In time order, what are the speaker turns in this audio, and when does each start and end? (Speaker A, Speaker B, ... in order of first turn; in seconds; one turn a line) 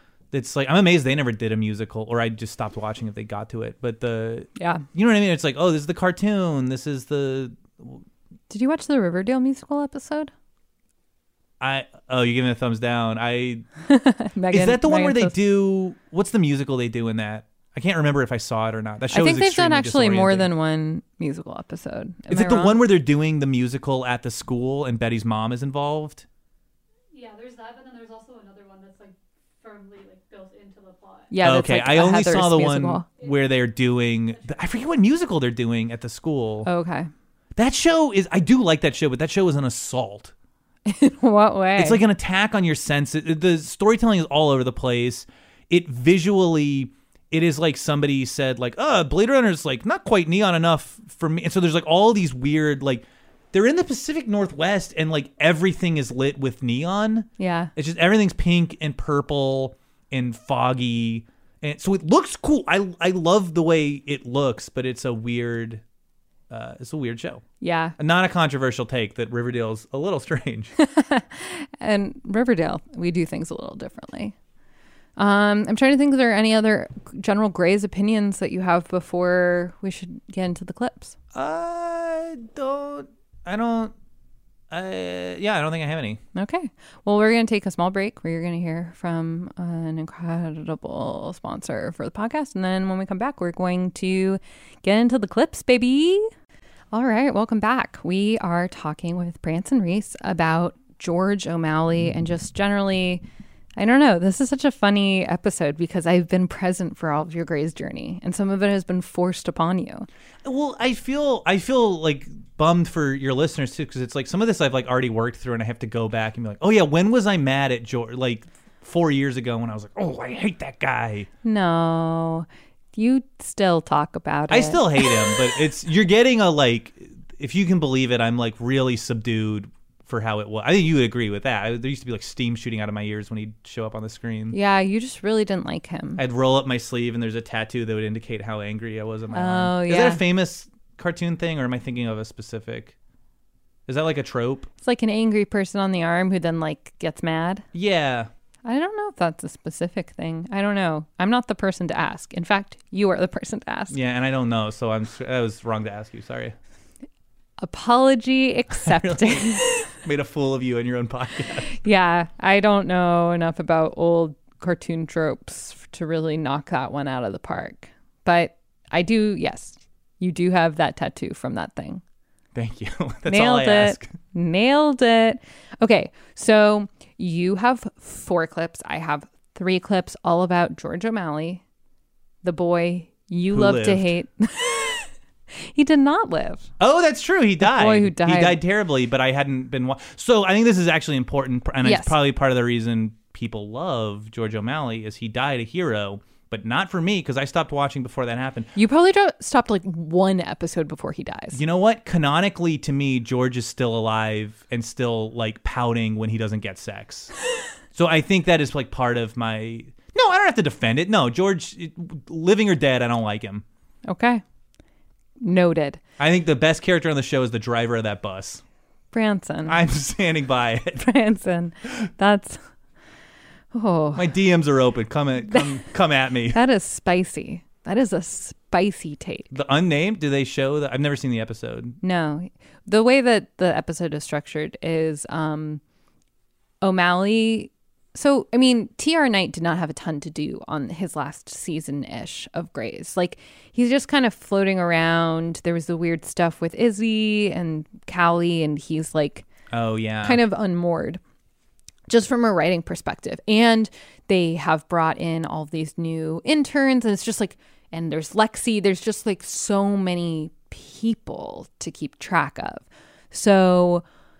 Speaker A: 0.3-8.0
Speaker B: 4.6-4.8
Speaker B: 8.5-10.3
Speaker A: 11.6-13.7
Speaker B: 13.8-15.3
Speaker A: 14.5-20.5
Speaker B: 19.1-22.8
Speaker A: 22.3-26.2
Speaker C: 27.1-31.3
Speaker B: 31.3-33.1
Speaker A: 31.4-36.7
Speaker C: 33.2-33.6
Speaker C: 34.3-34.9
Speaker B: 36.6-37.1
Speaker A: 37.5-40.3
Speaker B: 40.9-42.0
Speaker A: 41.8-65.8
Speaker B: 57.4-57.7
Speaker A: 66.5-67.4
Speaker B: 67.6-68.0
Speaker A: 68.0-70.7
Speaker B: 70.8-74.3
Speaker B: 75.2-81.1
Speaker A: 81.3-83.9
Speaker A: 84.7-86.2
Speaker B: 86.3-96.3
Speaker B: 96.9-103.2
Speaker B: 103.8-110.1
Speaker A: 110.4-121.3
Speaker B: 121.4-125.3
Speaker A: 124.5-134.6
Speaker B: 134.5-136.2
Speaker A: 136.2-142.9
Speaker B: 139.3-140.2
Speaker A: 143.9-144.7
Speaker B: 144.8-147.6
Speaker A: 147.7-148.3
Speaker B: 148.6-153.9
Speaker A: 153.9-156.5
Speaker B: 157.6-159.9
Speaker A: 158.8-161.7
Speaker B: 161.7-172.0
Speaker A: 172.5-174.1
Speaker B: 173.3-181.6
Speaker B: 182.4-185.1
Speaker A: 183.5-184.1
Speaker B: 185.6-186.7
Speaker A: 186.8-198.7
Speaker B: 187.6-188.6
Speaker B: 191.8-192.2
Speaker B: 198.8-201.6
Speaker A: 201.5-207.3
Speaker A: 207.9-213.6
Speaker B: 214.1-214.4
Speaker B: 215.4-216.0
Speaker A: 216.2-218.6
Speaker B: 219.1-219.8
Speaker A: 219.7-221.0
Speaker B: 221.0-222.6
Speaker B: 223.7-224.3
Speaker A: 224.1-226.6
Speaker B: 225.5-225.8
Speaker B: 226.5-229.5
Speaker A: 229.5-232.0
Speaker B: 232.0-235.8
Speaker B: 236.8-249.4
Speaker A: 249.7-250.4
Speaker B: 250.2-251.2
Speaker B: 252.1-264.0